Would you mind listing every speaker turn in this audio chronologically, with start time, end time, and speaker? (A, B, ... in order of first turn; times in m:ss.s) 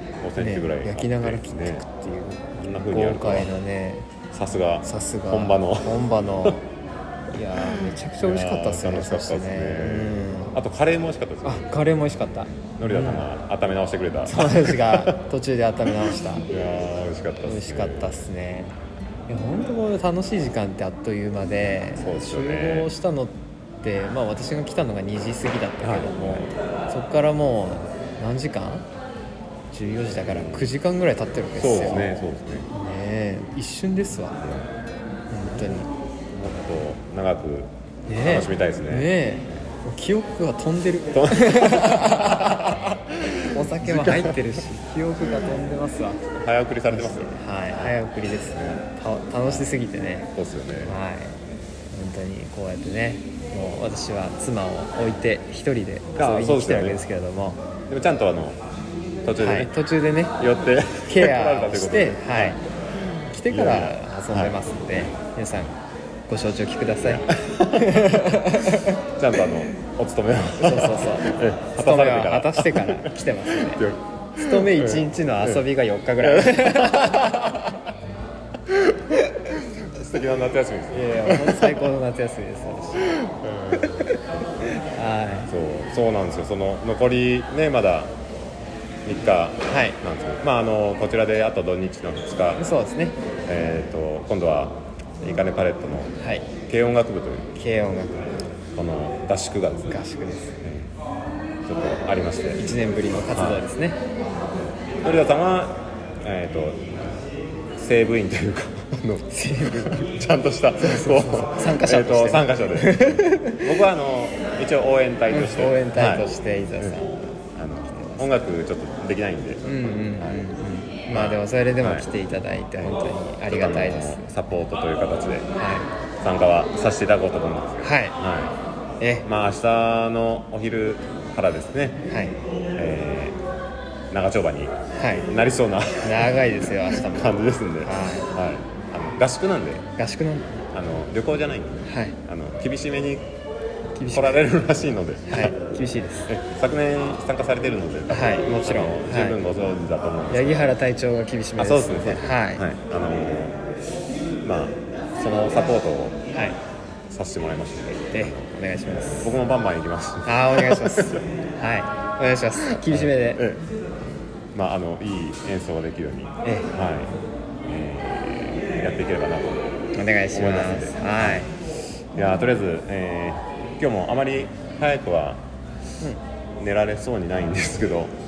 0:00.2-0:01.8 A
0:00.4-0:04.1 B
0:02.6-0:03.5 A
0:04.3-0:06.5 A
0:04.8-0:06.6 B
0:07.3-0:10.6 B
0:07.8-0:11.8 A
0:11.4-0:13.3 B
0:12.6-0:15.2 A
0:14.3-0:16.5 B
0:16.1-0:18.2 A
0:17.4-0:18.7 B
0:19.3-0:28.9 B
0:22.0-0:22.9 A
0:25.8-0:26.5 A
0:29.7-0:32.1 B
0:30.1-0:30.7 A
0:31.6-0:32.7 A
0:32.7-0:34.4 B
0:34.4-0:34.7 A
0:35.3-0:35.9 B
0:36.3-0:39.1 A
0:38.1-0:42.8 B
0:41.1-0:44.4 A
0:43.5-0:46.3 B
0:46.3-0:48.8 A
0:46.9-0:50.3 B
0:50.4-0:51.0 A
0:50.8-0:51.4 B
0:51.9-0:57.6 B
0:56.2-0:57.0 A
0:57.9-0:58.6 A
0:59.2-0:59.7 A
0:59.4-1:00.4 B
1:00.4-1:02.6 A
1:01.1-1:02.6 B
1:03.3-1:05.8 B
1:03.5-1:04.6 A
1:06.3-1:09.0 B
1:07.0-1:15.6 A
1:10.6-1:13.8 B
1:14.4-1:17.6 B
1:16.2-1:17.8 A
1:18.7-1:19.0 A
1:19.5-1:21.9 A
1:20.9-1:23.2 B
1:23.0-1:24.0 A
1:23.8-1:24.2 B
1:24.7-1:25.5 B
1:25.5-1:28.1 A
1:29.0-1:32.6 A
1:29.7-1:30.0 B
1:32.6-1:33.2 B
1:33.4-1:36.1 A
1:36.2-1:36.5 B
1:36.7-1:37.5 A
1:37.6-1:38.3 B
1:38.8-1:40.0 A
1:39.9-1:40.6 B
1:40.6-1:40.9 A
1:41.7-1:42.6 A
1:42.6-1:44.0 B
1:43.3-1:43.6 A
1:45.0-1:46.8 A
1:47.8-1:56.3 A
1:49.3-1:50.1 B
1:50.8-1:53.8 B
1:55.3-1:58.3 B
1:57.6-2:00.5 A
1:59.6-2:04.2 B
2:01.1-2:02.1 A
2:02.8-2:05.5 A
2:05.6-2:05.9 B
2:06.2-2:08.5 A
2:07.8-2:08.2 B
2:09.0-2:09.3 B
2:09.2-2:12.0 A
2:12.1-2:12.4 B
2:12.8-2:13.4 A
2:14.1-2:14.7 A
2:15.0-2:15.3 B
2:15.3-2:19.8 A
2:16.0-2:18.3 B
2:20.0-2:20.6 B
2:20.7-2:23.3 A
2:21.9-2:22.2 B
2:24.0-2:24.5 B
2:24.1-2:25.6 A
2:25.3-2:26.3 B
2:26.3-2:30.8 A
2:28.1-2:29.4 B
2:30.3-2:32.6 B
2:31.6-2:33.6 A
2:34.4-2:36.2 A
2:36.3-2:36.6 B
2:37.1-2:41.3 A
2:38.1-2:39.4 B
2:40.2-2:43.4 B
2:42.7-2:43.6 A
2:44.6-2:47.1 A
2:47.7-2:49.6 A
2:49.9-2:51.5 B
2:50.3-2:51.5 A
2:52.2-2:55.4 A
2:56.6-2:58.1 A